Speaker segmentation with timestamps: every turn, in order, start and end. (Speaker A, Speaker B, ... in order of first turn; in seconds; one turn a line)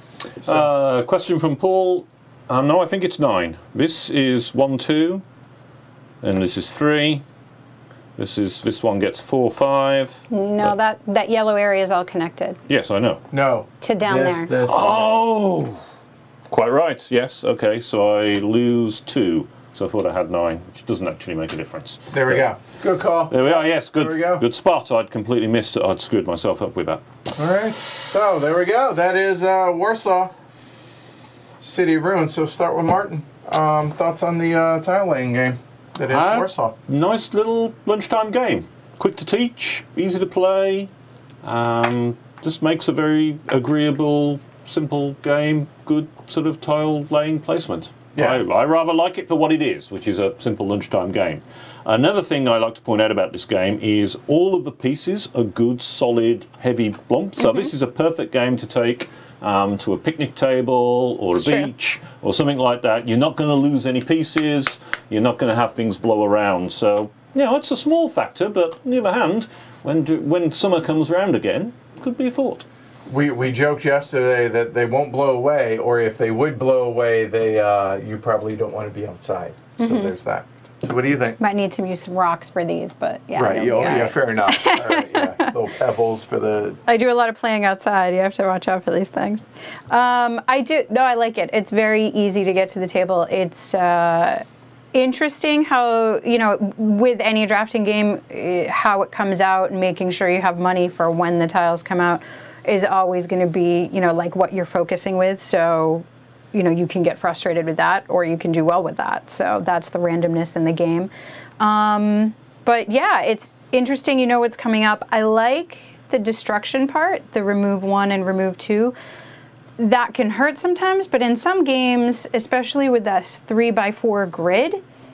Speaker A: 0.4-5.2
Speaker A: 6.2-7.2
Speaker A: 8.2-10.7
Speaker B: 10.3-12.6
Speaker A: 12.7-13.2
Speaker C: 13.3-15.1
Speaker B: 13.8-14.5
Speaker A: 14.6-15.8
Speaker A: 16.5-22.4
Speaker C: 22.1-24.4
Speaker A: 23.3-27.0
Speaker C: 27.4-30.3
Speaker C: 31.6-36.7
Speaker A: 36.0-40.9
Speaker A: 41.4-72.7
Speaker C: 48.1-48.4
Speaker B: 61.4-61.7
Speaker C: 73.1-81.4
Speaker B: 79.8-80.1
Speaker B: 81.4-85.5
Speaker C: 83.3-86.8
Speaker B: 86.8-119.0
Speaker B: 119.8-124.8